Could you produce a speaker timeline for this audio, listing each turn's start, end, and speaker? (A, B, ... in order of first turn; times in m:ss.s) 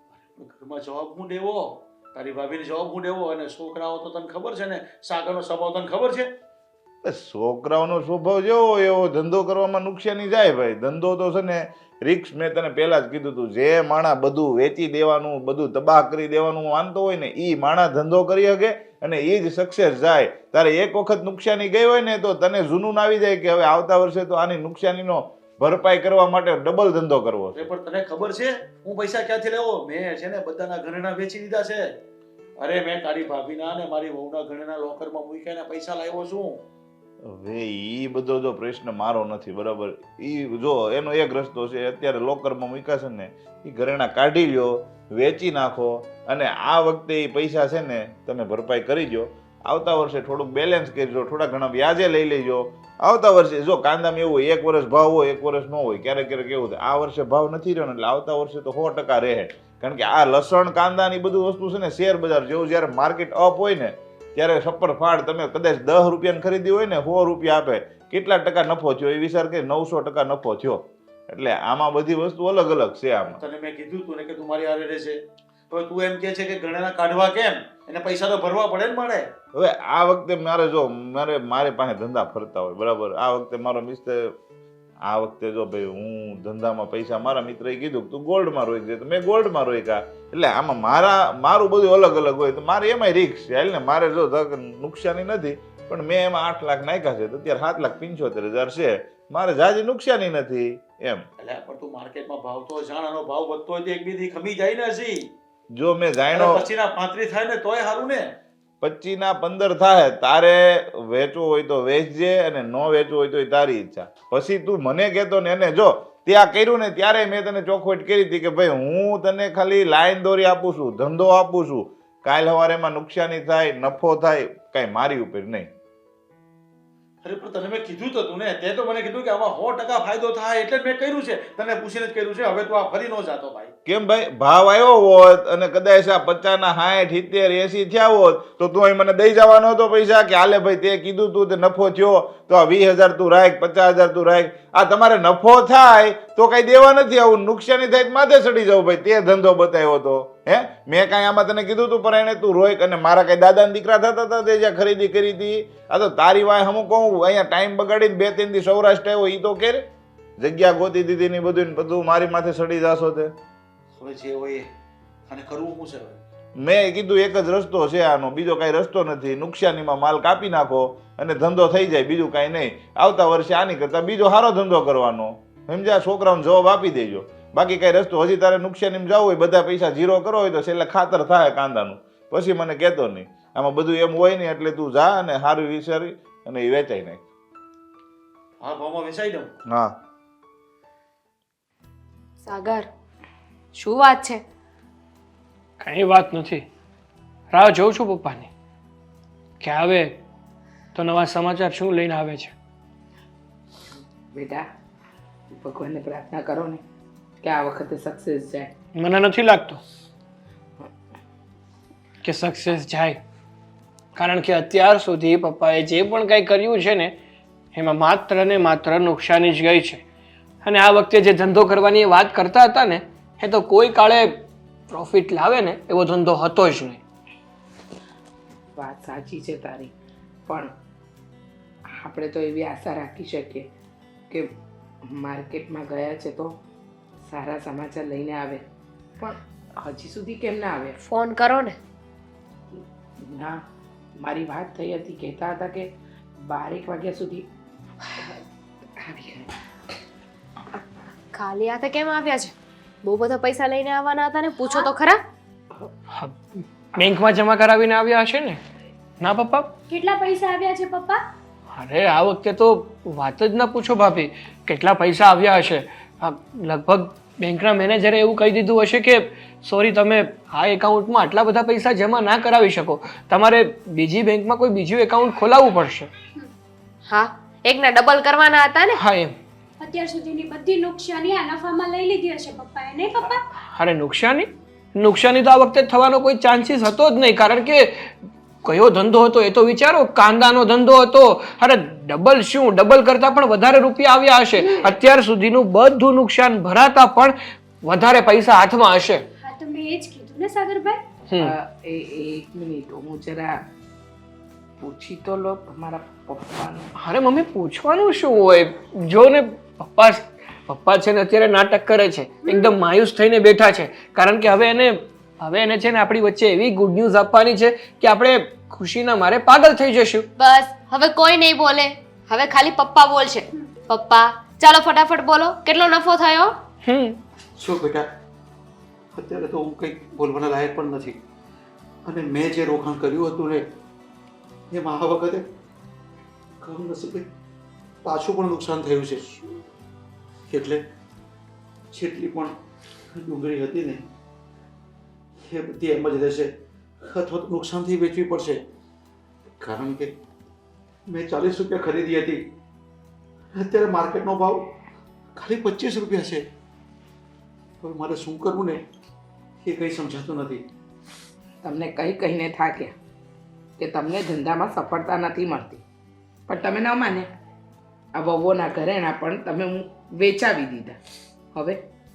0:00.1-0:06.3 A
0:07.0-0:27.7 B
0:27.5-0:31.8 A
0:32.6-0:36.6 A
0:37.3-1:13.4 B
1:13.4-1:15.2 A
1:15.7-1:19.3 A
1:19.5-1:24.3 B
1:25.1-1:41.2 B
1:41.4-1:45.3 A
1:45.7-1:46.7 B
1:46.3-1:48.2 A
1:48.8-2:05.7 B
2:07.2-2:13.7 A
2:13.8-2:39.8 B
2:40.4-2:43.3 B
2:44.0-2:44.7 A
2:45.3-2:46.2 A
2:46.6-3:07.2 B
3:08.6-3:09.5 A
3:12.4-3:12.9 C
3:13.7-3:14.4 C
3:15.8-3:16.6 D
3:17.5-3:18.5 D
3:19.6-3:20.2 D
3:20.9-3:22.5 D
3:24.3-3:24.6 E
3:25.5-3:26.8 E
3:27.4-3:28.7 E
3:29.0-3:29.8 D
3:32.2-3:33.2 D
3:34.2-3:37.1 D
3:37.7-3:40.0 D
3:40.6-3:44.3 D
3:44.9-3:47.0 D
3:48.8-3:49.9 E
3:50.5-3:50.7 E
3:52.0-3:53.7 E
3:55.1-3:56.6 E
3:57.3-3:58.6 E
3:59.2-4:01.0 E
4:01.0-4:01.8 C
4:03.2-4:03.6 E
4:04.2-4:07.4 E
4:09.0-4:09.5 E
4:11.3-4:12.5 C
4:13.0-4:15.2 C
4:14.6-4:14.9 F
4:16.1-4:18.6 D
4:19.2-4:19.7 D
4:19.9-4:21.2 F
4:21.7-4:36.1 D
4:37.1-4:39.0 C
4:38.9-4:39.4 D
4:39.8-4:43.4 F
4:43.6-4:48.1 D
4:48.6-4:59.2 D
4:59.4-5:01.0 F
5:01.3-5:01.5 D
5:01.4-5:03.6 E
5:04.8-5:06.9 E
5:06.9-5:20.3 D
5:20.4-5:26.6 C
5:26.8-5:27.2 D
5:27.6-5:28.1 A
5:29.2-5:31.2 A
5:32.0-5:33.6 A
5:34.7-5:35.4 A
5:36.6-5:37.3 A
5:38.0-5:39.3 A
5:40.5-5:40.8 A
5:41.9-5:42.6 A
5:43.2-5:44.0 A
5:45.4-5:46.5 A
5:47.1-5:48.6 A
5:49.6-5:50.1 A
5:51.1-5:52.4 A
5:53.6-5:54.7 A
5:55.4-5:56.4 A
5:57.8-5:58.8 A
5:59.6-6:00.6 A
6:01.6-6:02.9 E
6:03.8-6:05.8 E
6:06.5-6:07.3 E
6:08.2-6:11.0 E